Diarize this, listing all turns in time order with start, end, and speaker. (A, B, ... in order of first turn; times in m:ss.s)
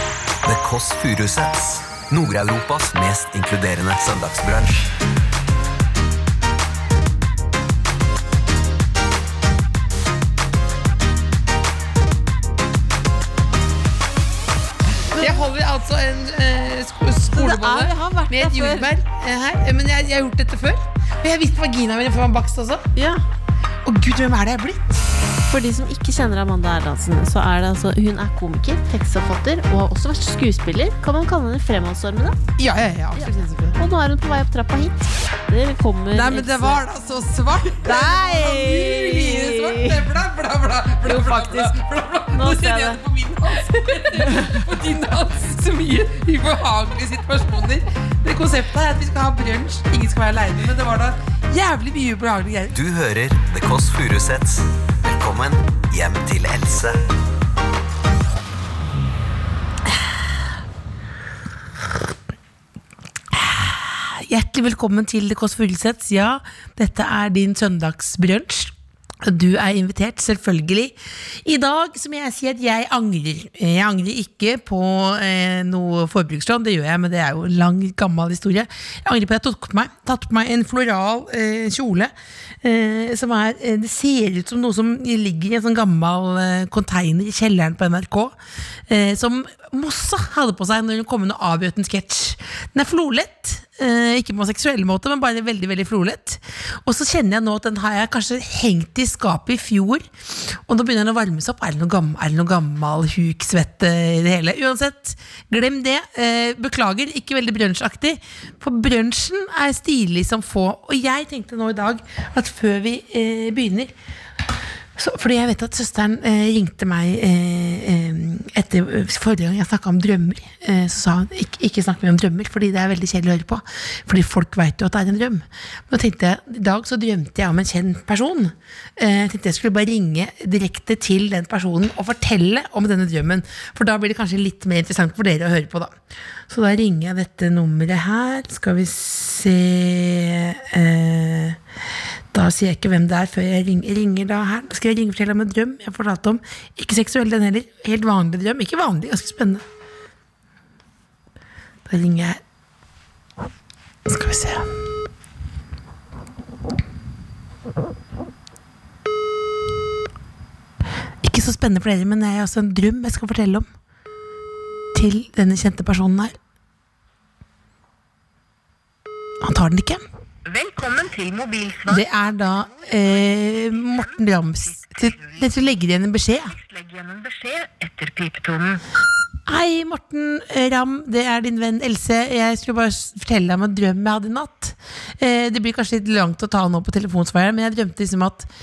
0:00.4-0:04.9 A
0:15.1-0:15.4 B
0:15.2-0:22.8 C
0:17.3-0:18.9 B
0:22.9-0:23.2 B
0:23.8-0:25.1 C
0:25.5-0:32.4 B
0:32.6-0:33.8 C
0:33.2-0:36.8 B
0:36.1-0:52.8 C
0:37.8-0:40.0 B
0:41.0-0:41.8 B
0:42.3-0:43.0 B
0:43.6-0:44.5 B
0:52.7-0:57.0 A
1:03.3-1:28.4 C
1:28.9-1:53.9 C
1:55.0-2:16.0 C
2:16.5-2:21.6 C
2:22.3-2:29.6 C
2:31.9-2:32.4 C
2:34.0-2:34.7 C
2:41.2-2:43.7 C
2:44.9-2:46.4 C
2:49.4-2:50.0 C
2:50.5-2:52.0 D
2:51.9-2:56.5 C
2:56.6-2:58.8 D
2:59.4-3:08.5 C